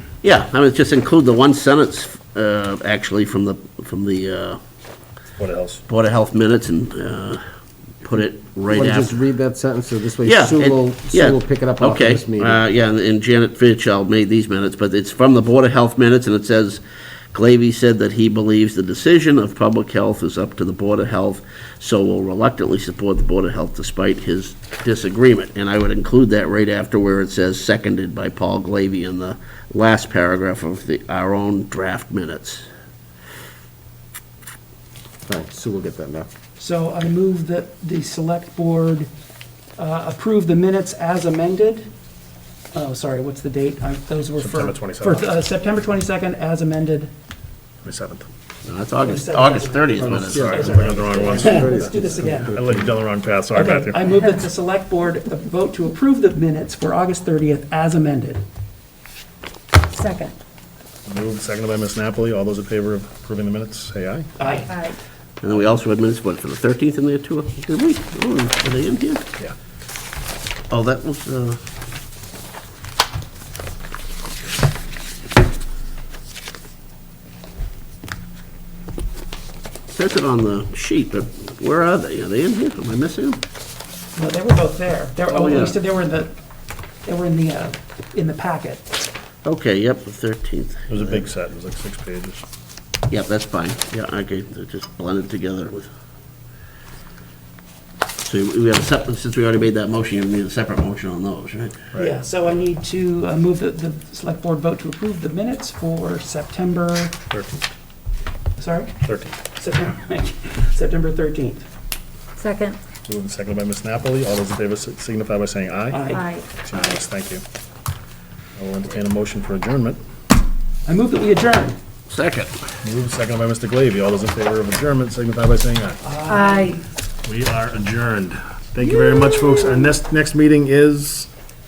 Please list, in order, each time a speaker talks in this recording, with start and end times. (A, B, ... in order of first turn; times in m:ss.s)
0:00.2-0:04.6 A
0:05.4-0:05.8 B
0:05.9-0:07.4 A
0:08.0-0:09.2 A
0:08.7-0:12.6 C
0:10.2-0:16.8 A
0:17.3-0:32.6 A
0:35.2-0:36.3 C
0:36.6-0:39.1 D
0:39.8-0:41.9 D
0:42.7-0:47.1 D
0:44.4-0:45.3 B
0:47.8-0:48.3 B
0:48.6-0:50.8 A
0:49.0-0:52.6 D
0:50.0-0:52.8 C
0:50.3-0:54.1 B
0:53.5-0:58.4 D
0:59.9-1:00.3 E
1:01.1-1:04.3 B
1:04.4-1:04.7 D
1:04.7-1:05.0 E
1:05.4-1:09.2 A
1:10.7-1:11.6 A
1:19.9-1:23.4 A
1:24.2-1:26.3 D
1:25.3-1:25.8 A
1:27.0-1:28.9 D
1:29.4-1:31.3 A
1:30.9-1:32.4 B
1:33.1-1:35.9 A
1:38.2-1:41.8 A
1:42.0-1:47.1 D
1:47.3-1:47.6 B
1:48.6-1:48.9 D
1:49.0-1:49.4 B
1:49.6-1:51.6 D
1:52.4-1:52.8 E
1:53.0-1:56.0 B
1:55.9-1:56.2 D
1:56.1-1:56.5 E
1:56.6-1:57.4 B
1:58.6-2:00.0 B
2:00.8-2:01.8 D
2:02.1-2:02.5 A
2:02.8-2:06.0 B
2:06.0-2:06.8 D
2:06.3-2:06.8 E
2:07.2-2:11.3 B
2:08.9-2:09.6 D